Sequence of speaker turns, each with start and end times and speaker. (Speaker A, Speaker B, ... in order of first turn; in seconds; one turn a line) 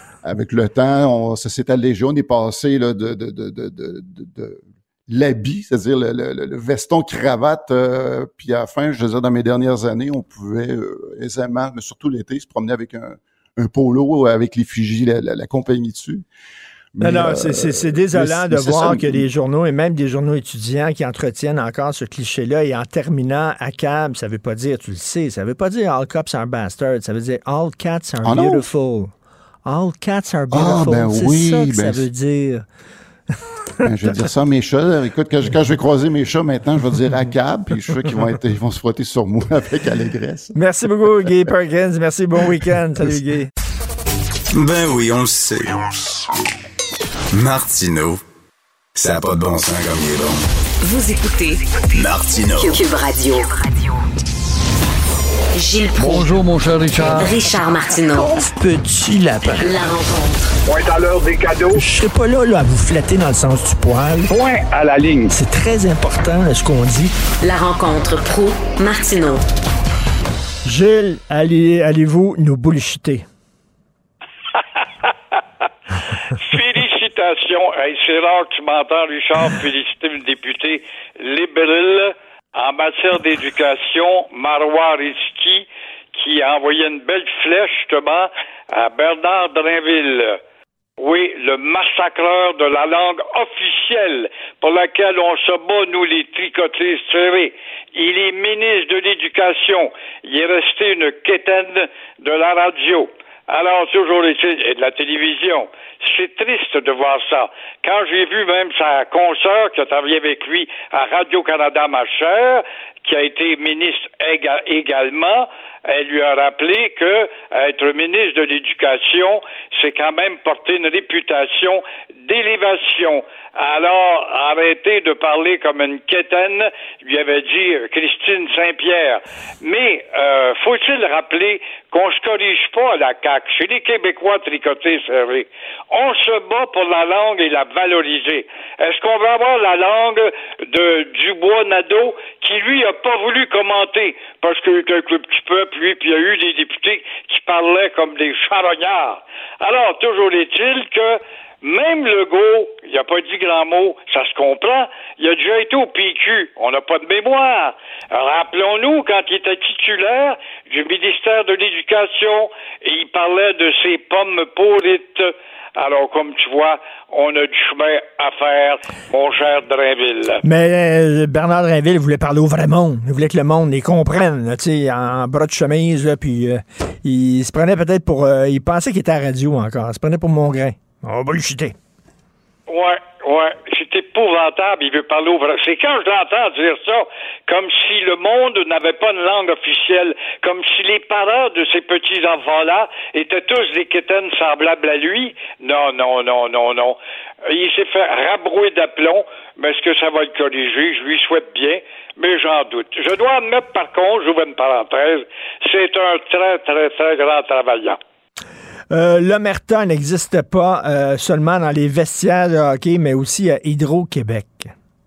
Speaker A: 0.2-16.2
Speaker A: 16.9-19.2
Speaker B: 17.0-29.1
Speaker A: 28.2-28.7
Speaker B: 29.6-32.6
Speaker A: 30.5-32.1
Speaker A: 33.8-40.6
Speaker B: 40.5-43.5
Speaker C: 44.5-45.9
Speaker C: 47.3-48.2
Speaker C: 49.0-50.5
Speaker D: 50.8-51.6
Speaker C: 51.9-52.8
Speaker D: 52.6-53.9
Speaker D: 55.5-56.4
Speaker B: 56.0-57.3
Speaker D: 57.0-58.4
Speaker B: 58.1-59.7
Speaker D: 59.6-60.5
Speaker E: 60.7-61.8
Speaker B: 61.8-64.3
Speaker E: 64.3-65.3
Speaker B: 65.3-67.2
Speaker D: 67.4-69.4
Speaker B: 70.7-73.2
Speaker F: 74.6-75.1
Speaker F: 76.4-90.4
Speaker F: 91.0-170.4
Speaker B: 170.4-181.8
Speaker F: 182.7-197.0
Speaker F: 197.5-208.0
Speaker B: 208.9-214.7